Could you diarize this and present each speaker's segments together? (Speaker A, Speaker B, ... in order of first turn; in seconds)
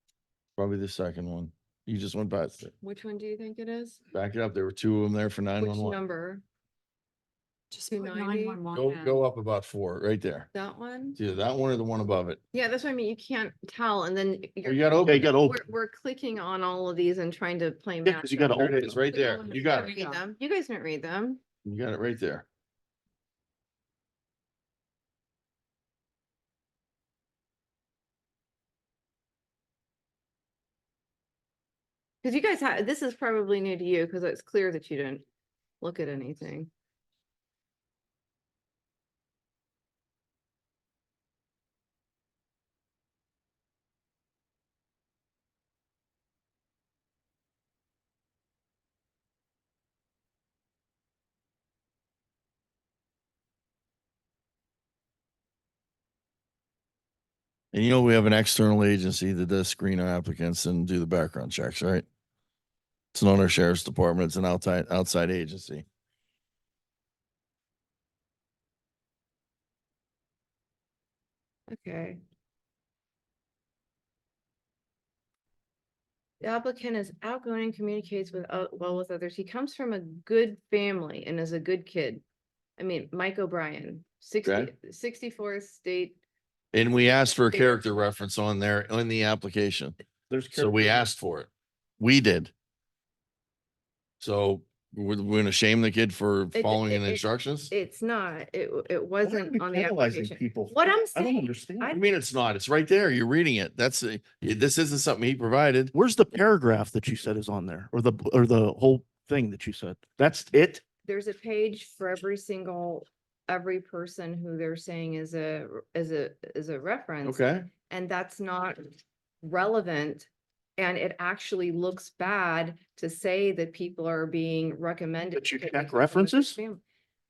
Speaker A: 0.6-2.7, 4.1-6.0, 8.7-10.5, 11.1-12.4, 14.6-15.3, 18.5-20.0, 21.6-22.4, 57.7-62.0, 63.1-65.8, 84.4-84.7, 86.7-90.0, 90.5-92.5, 94.2-97.7, 101.9-105.9, 117.2-117.7
Speaker B: 2.8-4.0, 5.6-6.4, 7.9-8.6, 10.5-11.2, 12.5-21.4, 32.2-35.2, 35.8-36.7, 71.7-72.2, 76.4-82.2, 82.8-86.2, 96.5-102.0, 111.0-126.8
Speaker C: 7.7-9.2, 19.5-20.2
Speaker D: 15.1-15.6, 18.0-19.0, 90.3-91.1, 99.2-101.9, 105.9-110.8, 125.3-126.6